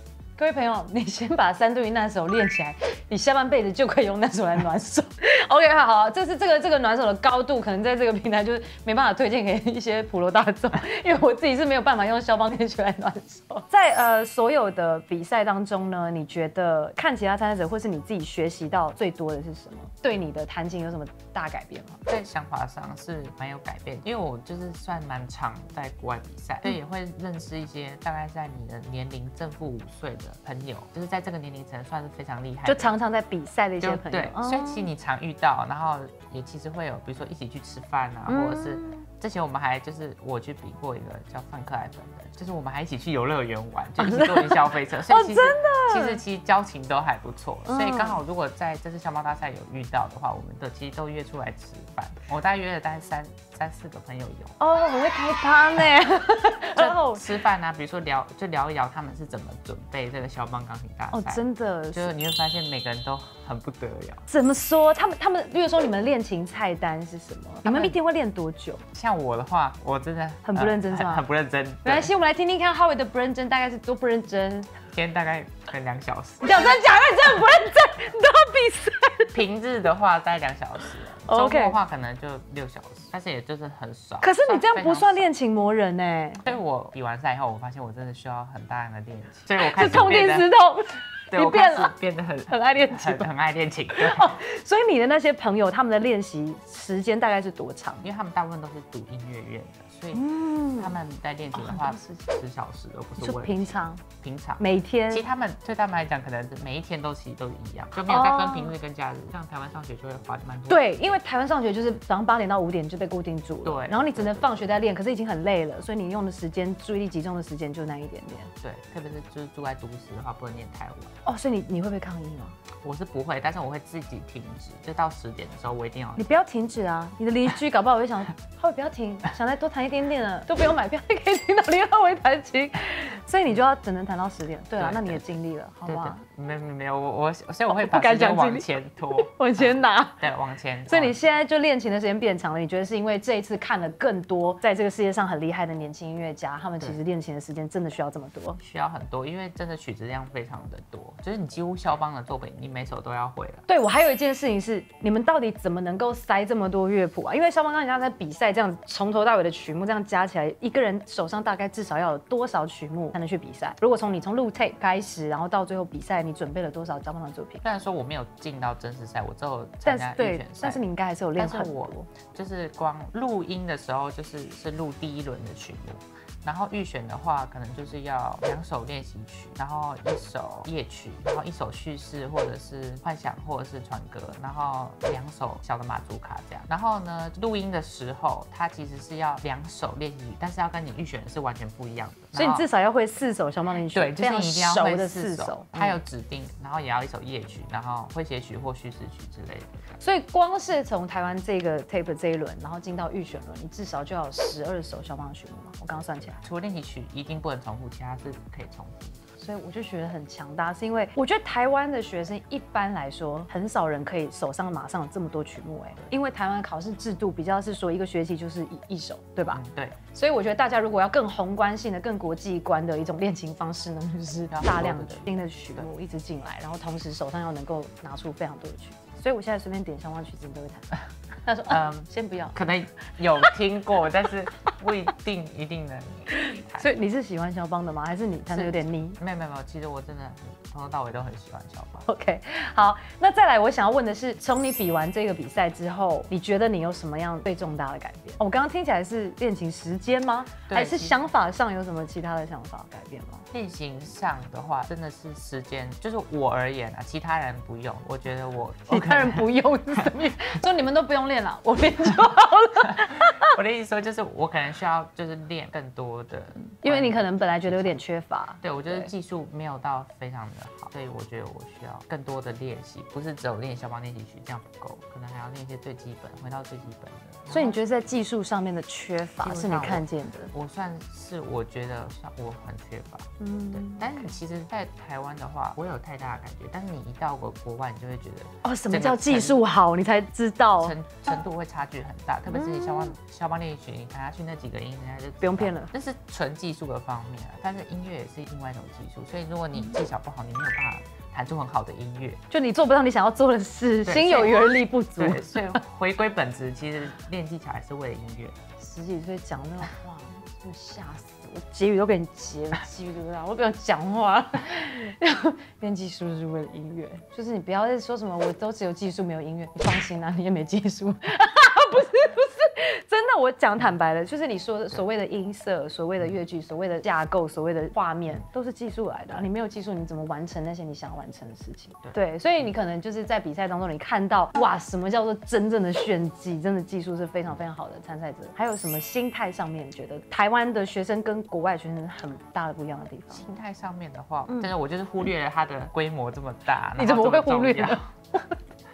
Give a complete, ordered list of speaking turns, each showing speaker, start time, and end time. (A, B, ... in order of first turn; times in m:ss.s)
0:00.4-0:22.0 A
0:22.1-0:32.9 B
0:32.7-0:34.9 A
0:33.8-0:54.6 B
0:38.3-0:39.0 A
0:44.0-0:46.2 A
0:47.6-0:48.2 A
0:54.6-0:57.2 A
0:56.8-1:04.2 B
1:01.1-1:02.1 A
1:04.3-1:08.8 A
1:07.7-1:08.0 B
1:08.9-1:12.1 B
1:10.4-1:11.2 A
1:11.8-1:14.7 A
1:14.9-1:16.8 B
1:16.4-1:19.4 A
1:19.3-1:25.2 B
1:21.2-1:21.8 A
1:24.2-1:26.4 A
1:26.4-1:30.5 B
1:29.6-1:32.0 A
1:31.3-1:34.4 B
1:32.5-1:33.3 A
1:33.9-1:38.1 A
1:38.0-1:51.2 B
1:40.1-1:41.0 A
1:41.6-1:42.2 A
1:43.2-1:44.0 A
1:44.6-1:45.3 A
1:48.1-1:48.7 A
1:50.7-1:58.5 A
1:53.6-1:54.6 B
1:58.6-2:01.1 B
2:01.2-2:02.6 A
2:02.8-2:06.3 B
2:06.2-2:16.2 A
2:14.8-2:15.4 B
2:15.9-2:21.2 B
2:17.7-2:20.2 A
2:20.9-2:28.6 A
2:28.6-2:33.6 B
2:33.7-2:47.6 A
2:47.6-2:50.8 B
2:49.8-2:52.1 A
2:51.4-3:12.6 B
3:12.3-3:16.0 A
3:13.9-3:20.0 B
3:20.0-3:26.4 A
3:26.4-3:29.2 B
3:29.4-3:39.6 A
3:39.5-3:40.0 B
3:40.1-3:52.6 A
3:44.5-3:45.9 B
3:51.7-3:56.9 B
3:56.4-3:59.2 A
3:58.5-4:02.1 B
4:02.1-4:13.5 A
4:10.7-4:11.2 B
4:13.5-4:20.0 B
4:18.9-4:23.5 A
4:23.4-4:28.0 B
4:26.8-4:29.1 A
4:28.6-4:37.8 B
4:37.5-4:40.5 A
4:39.4-4:49.6 B
4:43.4-4:44.4 A
4:48.6-4:51.0 A
4:50.8-5:02.4 B
4:52.5-4:53.2 A
4:55.4-4:55.9 A
5:02.5-5:05.8 A
5:04.0-5:04.6 B
5:05.2-5:08.6 B
5:08.8-5:43.4 A
5:43.3-5:48.1 B
5:47.0-5:48.6 A